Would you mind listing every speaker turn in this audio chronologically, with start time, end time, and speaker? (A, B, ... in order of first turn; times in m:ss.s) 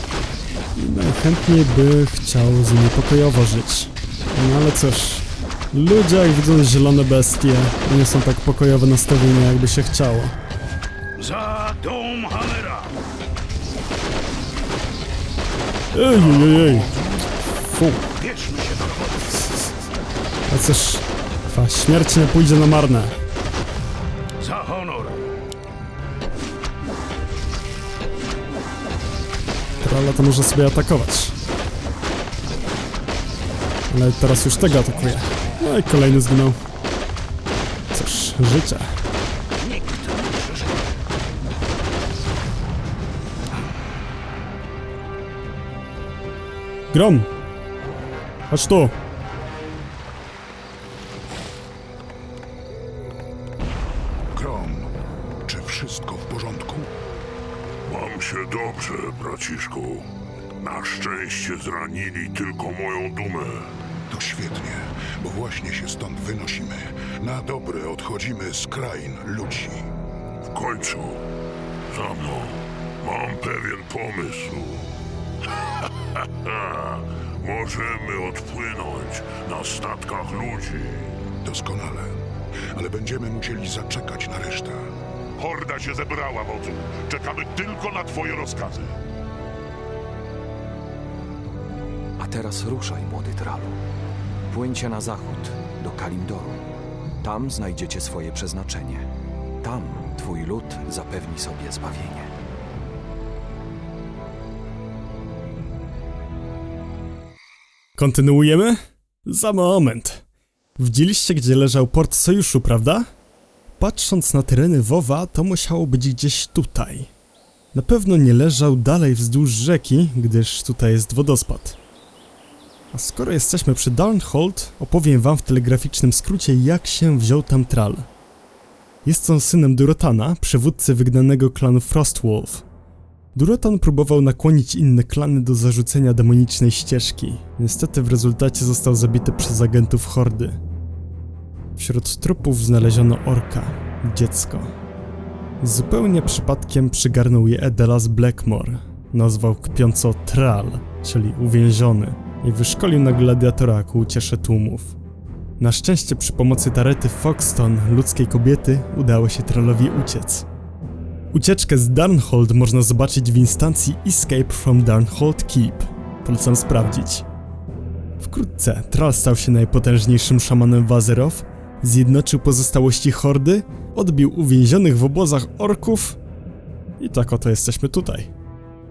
0:00.8-0:10.4 A
0:11.2-0:12.9 B
0:15.9-0:18.1 A
0:18.2-0:19.3 B
0:20.5-0:23.2 A
0:24.4-0:25.2 B
0:29.8-0:31.4 A
0:33.9-0:36.6 A
0:37.9-0:38.9 A
0:39.6-0:40.7 B
0:46.9-0:47.3 A
0:48.5-0:48.9 A
0:54.3-0:54.9 C
0:55.5-0:56.9 C
0:57.9-1:00.1 D
1:00.6-1:03.7 D
1:04.1-1:09.9 C
1:10.5-1:11.2 D
1:11.9-1:14.9 D
1:15.6-1:21.2 D
1:21.4-1:22.2 C
1:22.7-1:24.8 C
1:25.4-1:29.0 D
1:32.2-1:33.8 E
1:34.5-1:36.6 E
1:37.2-1:39.1 E
1:39.6-1:42.3 E
1:48.0-1:50.2 A
1:50.8-1:53.1 A
1:53.8-1:57.1 A
1:57.7-2:01.8 A
2:02.9-2:08.1 A
2:09.0-2:12.6 A
2:13.3-2:20.6 A
2:21.8-2:24.7 A
2:25.6-2:35.0 A
2:35.6-2:40.5 A
2:41.3-2:47.2 A
2:48.2-2:56.2 A
2:57.0-2:58.3 A